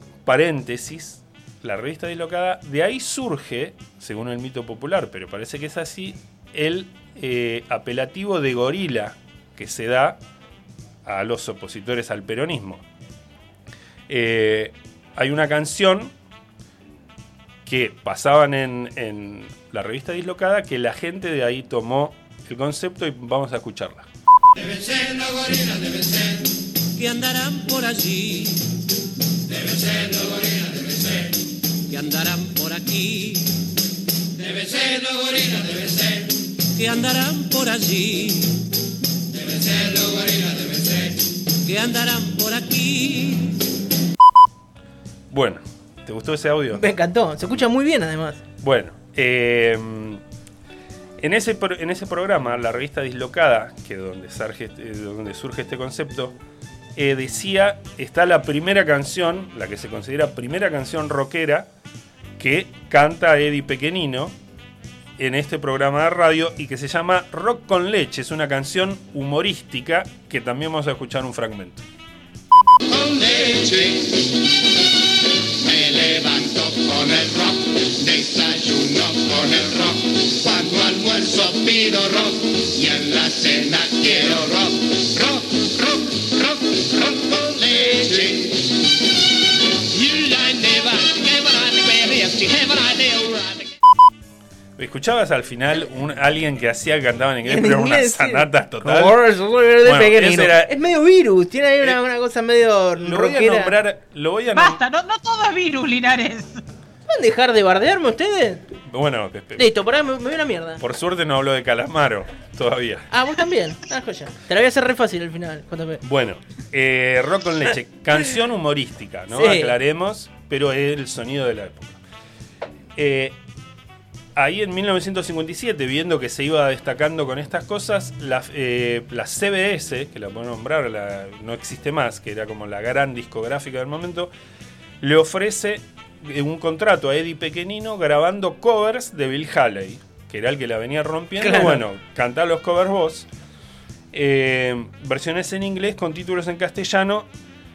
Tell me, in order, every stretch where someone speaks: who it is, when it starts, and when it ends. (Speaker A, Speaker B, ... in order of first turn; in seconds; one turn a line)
Speaker A: 0.2-10.2
Speaker A: 11.0-12.8
Speaker A: 14.1-16.1
Speaker A: 17.6-24.1
Speaker B: 24.7-26.1
Speaker B: 26.9-28.7
Speaker B: 29.5-31.3
Speaker B: 31.9-33.6
Speaker B: 34.4-38.6
Speaker B: 39.5-41.1
Speaker B: 41.6-43.7
Speaker A: 45.3-46.8
Speaker C: 46.7-48.4
Speaker A: 48.6-50.2
Speaker A: 51.2-56.4
Speaker A: 56.9-61.7
Speaker A: 62.4-64.4
Speaker A: 65.2-71.8
Speaker D: 72.9-74.5
Speaker D: 75.6-88.7
Speaker D: 89.9-93.8
Speaker A: 94.8-99.2
Speaker C: 97.4-103.7
Speaker A: 99.8-100.8
Speaker A: 103.0-104.8
Speaker E: 104.5-106.6
Speaker C: 107.1-108.6
Speaker A: 108.8-109.7
Speaker C: 109.6-110.8
Speaker A: 110.8-113.1
Speaker C: 113.1-116.0
Speaker A: 116.0-122.0
Speaker C: 119.3-119.7
Speaker A: 123.0-123.4
Speaker A: 124.3-134.3
Speaker A: 135.0-143.3
Speaker C: 141.4-141.8
Speaker A: 144.1-147.3